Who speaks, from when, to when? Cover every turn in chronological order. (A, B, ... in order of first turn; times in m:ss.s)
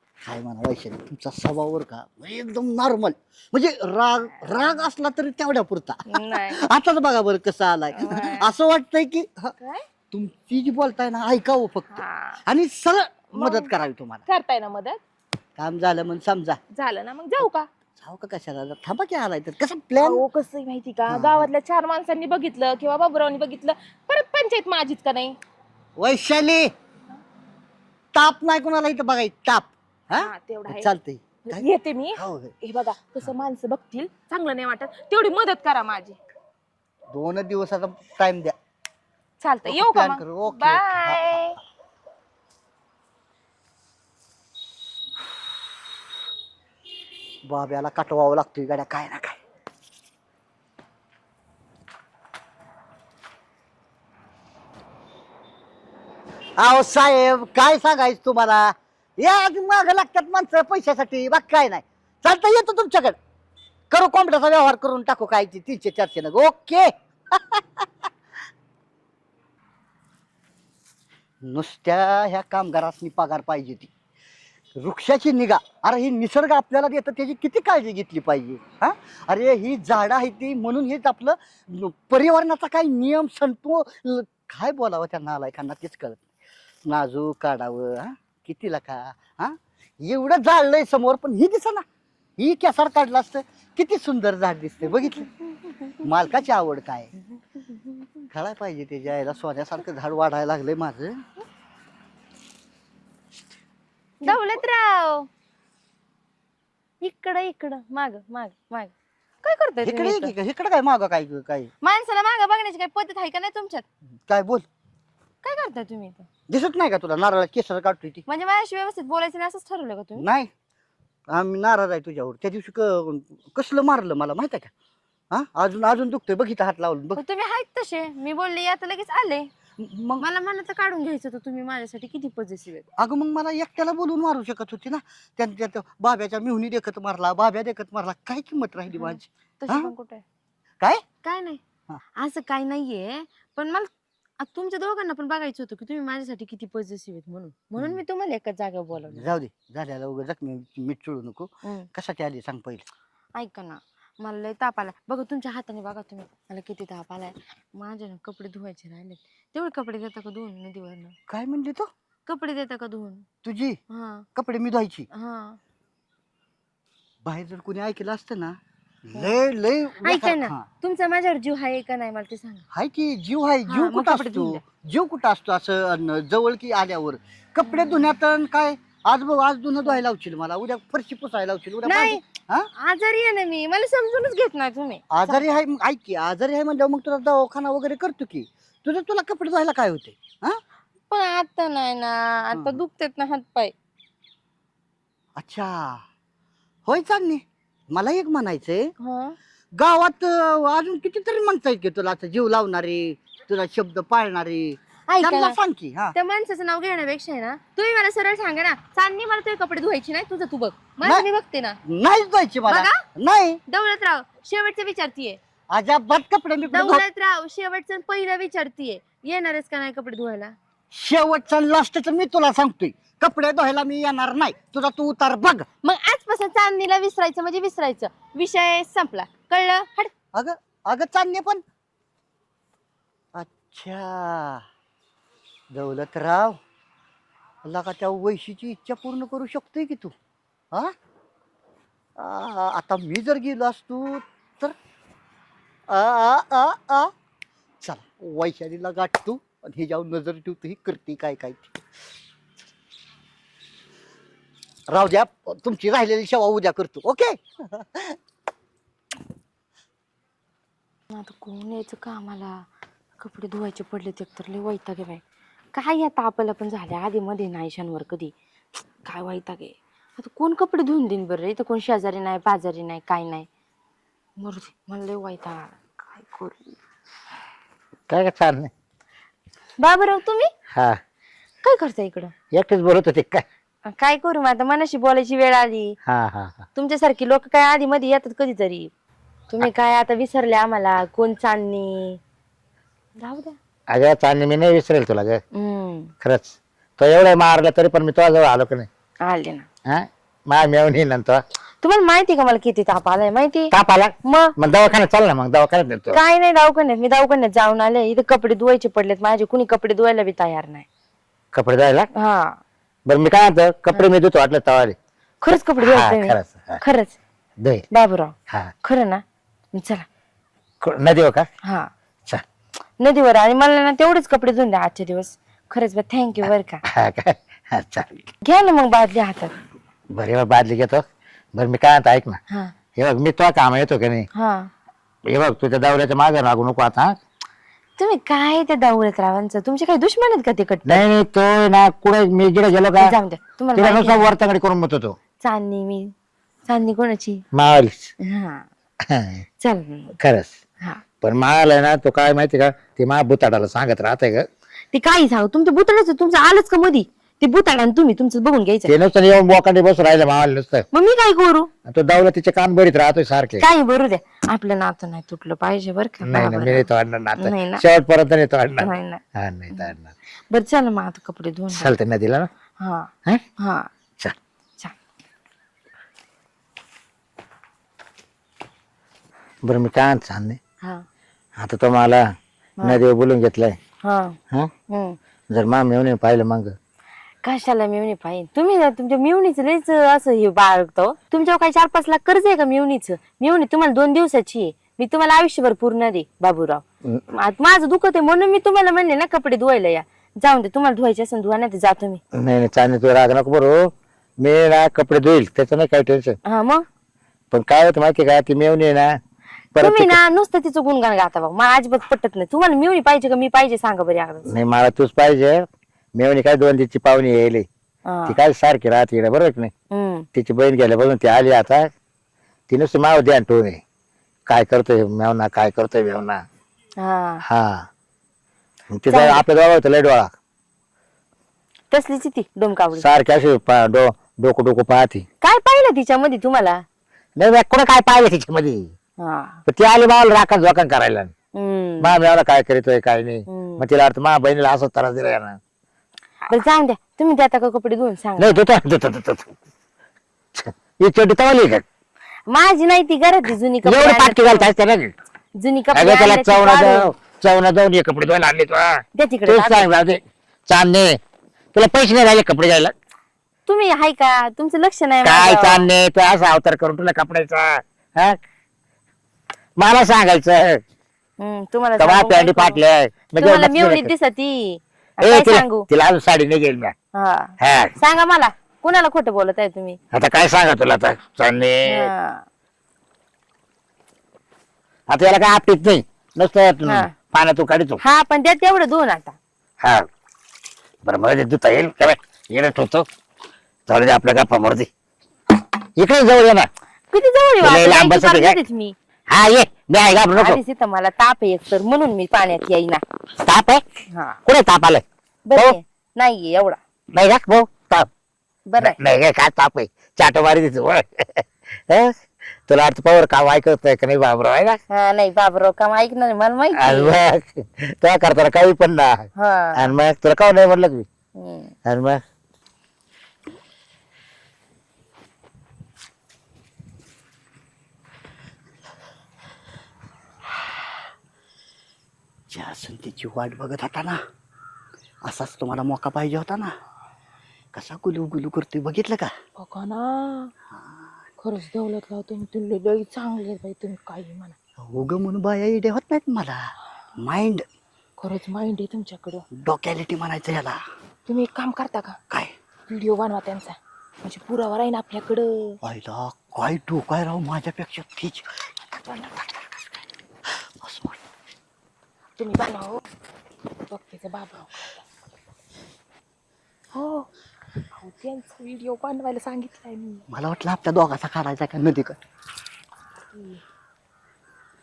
0:00.2-0:09.5 A
0:04.3-0:04.8 B
0:06.1-0:06.6 B
0:07.9-0:08.5 B
0:09.6-0:09.8 B
0:10.1-0:11.9 A
0:11.9-0:12.4 B
0:12.4-0:14.2 A
0:13.3-0:13.7 B
0:14.3-0:15.0 B
0:15.6-0:16.6 A
0:16.7-0:17.7 B
0:18.0-0:20.2 A
0:20.0-0:25.4 B
0:21.1-0:21.5 A
0:26.0-0:26.7 A
0:28.1-0:32.5 A
0:30.2-0:30.9 B
0:31.5-0:36.2 B
0:37.1-0:38.5 A
0:39.4-0:41.6 B
0:39.6-0:41.6 A
0:47.4-0:49.4 A
0:56.6-1:03.2 A
1:03.9-1:07.8 A
1:11.4-1:13.9 A
1:14.8-1:26.2 A
1:26.8-1:31.8 A
1:32.4-1:35.3 A
1:35.6-1:36.0 C
1:36.0-1:37.1 A
1:37.6-1:38.2 C
1:38.3-1:41.2 A
1:44.2-1:45.3 C
1:47.0-1:50.3 C
1:49.8-1:51.7 A
1:51.8-1:53.8 C
1:54.3-1:54.6 A
1:55.4-1:56.3 C
1:56.5-1:58.2 A
1:58.3-2:00.2 C
2:00.2-2:00.5 A
2:01.3-2:04.7 A
2:05.3-2:07.2 A
2:07.1-2:09.5 C
2:09.8-2:10.2 A
2:10.2-2:12.8 C
2:13.0-2:19.9 A
2:18.9-2:20.2 C
2:21.2-2:21.6 C
2:22.2-2:29.3 C
2:29.1-2:32.9 A
2:33.3-2:41.1 C
2:41.3-2:41.9 A
2:42.3-2:43.2 C
2:43.4-2:43.8 A
2:43.9-2:44.2 C
2:44.3-2:45.1 A
2:45.1-2:45.6 C
2:47.2-2:50.6 A
2:50.0-2:52.6 C
2:52.7-3:02.7 A
2:53.7-2:54.6 C
2:57.6-2:58.1 C
3:01.8-3:02.2 C
3:02.8-3:05.5 C
3:05.1-3:10.6 A
3:11.1-3:13.7 C
3:12.5-3:12.8 A
3:15.4-3:16.0 A
3:16.8-3:18.9 A
3:19.0-3:19.4 C
3:19.8-3:26.1 A
3:25.1-3:25.6 C
3:26.1-3:31.8 C
3:31.8-3:33.6 A
3:32.7-3:32.9 C
3:33.7-3:35.4 C
3:35.7-3:37.0 A
3:36.7-3:40.5 C
3:40.9-3:45.6 A
3:45.8-3:50.1 C
3:50.3-3:51.6 A
3:53.3-3:54.6 A
3:55.7-3:56.6 A
3:57.6-4:00.1 A
4:02.2-4:04.7 A
4:05.9-4:07.1 A
4:07.8-4:11.8 A
4:14.9-4:18.2 A
4:21.1-4:22.6 C
4:23.2-4:25.2 C
4:25.7-4:28.3 C
4:29.0-4:33.5 C
4:34.4-4:36.7 C
4:38.1-4:38.7 D
4:39.8-4:40.5 C
4:41.6-4:42.3 C
4:42.5-4:43.4 D
4:43.9-4:46.0 C
4:46.0-4:46.6 D
4:46.7-4:48.9 C
4:49.5-4:52.2 C
4:53.2-4:53.6 C
4:53.9-4:55.4 D
4:55.5-4:56.1 C
4:56.2-4:58.9 D
4:59.2-4:59.7 C
4:59.9-5:01.4 D
5:01.8-5:03.7 C
5:03.7-5:06.2 D
5:04.2-5:04.5 C
5:06.1-5:10.8 C
5:11.5-5:12.1 D
5:12.1-5:12.6 C
5:13.1-5:15.0 D
5:15.4-5:17.2 C
5:15.8-5:16.8 D
5:17.6-5:17.9 D
5:17.9-5:20.0 C
5:20.8-5:21.5 D
5:21.6-5:21.9 C
5:23.0-5:26.8 C
5:26.9-5:28.3 D
5:28.4-5:29.5 C
5:30.1-5:32.4 D
5:33.0-5:34.3 D
5:34.3-5:34.7 C
5:35.3-5:37.1 D
5:38.0-5:41.0 C
5:40.8-5:43.1 D
5:42.9-5:44.3 C
5:43.8-5:45.1 D
5:45.4-5:46.1 C
5:46.7-5:47.4 C
5:47.5-5:48.1 D
5:48.2-5:48.6 C
5:49.1-5:49.4 D
5:49.6-5:50.1 C
5:50.2-5:50.5 D
5:51.2-5:54.4 D
5:54.9-5:58.9 C
5:58.8-6:00.8 D
6:00.9-6:01.7 C
6:01.9-6:03.6 D
6:03.6-6:07.8 C
6:06.2-6:10.1 D
6:08.8-6:09.2 C
6:10.5-6:11.9 C
6:11.7-6:12.5 D
6:12.8-6:13.9 C
6:19.6-6:20.6 D
6:21.6-6:22.2 D
6:22.8-6:23.8 D
6:24.0-6:24.4 C
6:24.9-6:25.2 C
6:25.5-6:26.7 D
6:27.4-6:36.8 C
6:37.3-6:42.2 C
6:42.4-6:46.4 D
6:46.4-6:46.8 C
6:47.5-6:49.1 D
6:49.7-6:50.2 D
6:49.8-6:54.4 C
6:54.5-6:57.6 D
6:58.0-6:58.4 C
6:58.3-6:59.7 D
6:59.9-7:00.3 C
7:00.3-7:01.9 D
7:02.7-7:03.8 D
7:04.5-7:06.4 D
7:07.0-7:07.4 C
7:07.5-7:07.8 D
7:08.9-7:10.3 D
7:09.1-7:09.4 C
7:11.9-7:13.0 C
7:13.0-7:15.2 D
7:15.4-7:16.8 C
7:17.4-7:18.9 D
7:19.2-7:19.6 C
7:19.7-7:21.3 D
7:21.5-7:22.1 C
7:22.0-7:25.6 D
7:23.5-7:23.8 C
7:26.5-7:28.6 C
7:28.4-7:29.5 D
7:30.6-7:31.8 D
7:32.5-7:34.7 C
7:33.8-7:35.1 D
7:35.5-7:37.1 C
7:35.9-7:41.2 D
7:39.2-7:39.8 C
7:41.7-7:42.9 D
7:43.7-7:45.9 C
7:45.2-7:48.4 D
7:49.8-7:50.8 D
7:51.4-7:52.8 C
7:52.0-7:54.1 D
7:53.4-7:55.9 C
7:55.2-7:56.9 D
7:57.1-8:00.0 C
7:57.6-7:58.0 D
8:00.1-8:02.1 D
8:01.9-8:02.4 C
8:05.1-8:08.0 D
8:06.8-8:07.1 C
8:08.0-8:09.4 C
8:11.0-8:13.0 D
8:13.9-8:14.9 D
8:16.0-8:16.7 D
8:17.1-8:19.0 C
8:17.6-8:18.6 D
8:19.3-8:20.6 D
8:20.4-8:23.0 C
8:23.4-8:23.8 D
8:24.1-8:24.4 C
8:24.4-8:25.0 D
8:25.5-8:26.8 C
8:27.1-8:28.1 D
8:28.7-8:29.0 C
8:28.8-8:32.1 D
8:32.7-8:34.8 D
8:34.9-8:37.2 C
8:36.8-8:41.0 D
8:39.4-8:39.9 C
8:41.4-8:41.7 C
8:41.8-8:42.2 D
8:52.5-8:54.2 A
8:55.2-8:56.7 A
8:57.7-8:59.3 A
8:59.6-9:00.5 B
9:00.7-9:01.1 A
9:01.4-9:04.5 B
9:04.8-9:07.6 A
9:08.2-9:09.4 B
9:09.5-9:10.8 A
9:11.3-9:12.2 B
9:12.9-9:15.8 B
9:15.8-9:19.8 A
9:18.9-9:19.4 B
9:20.8-9:21.2 A
9:22.4-9:23.0 B
9:23.9-9:25.0 B
9:26.9-9:27.3 B
9:27.9-9:30.2 B
9:30.3-9:32.2 A
9:33.3-9:33.6 B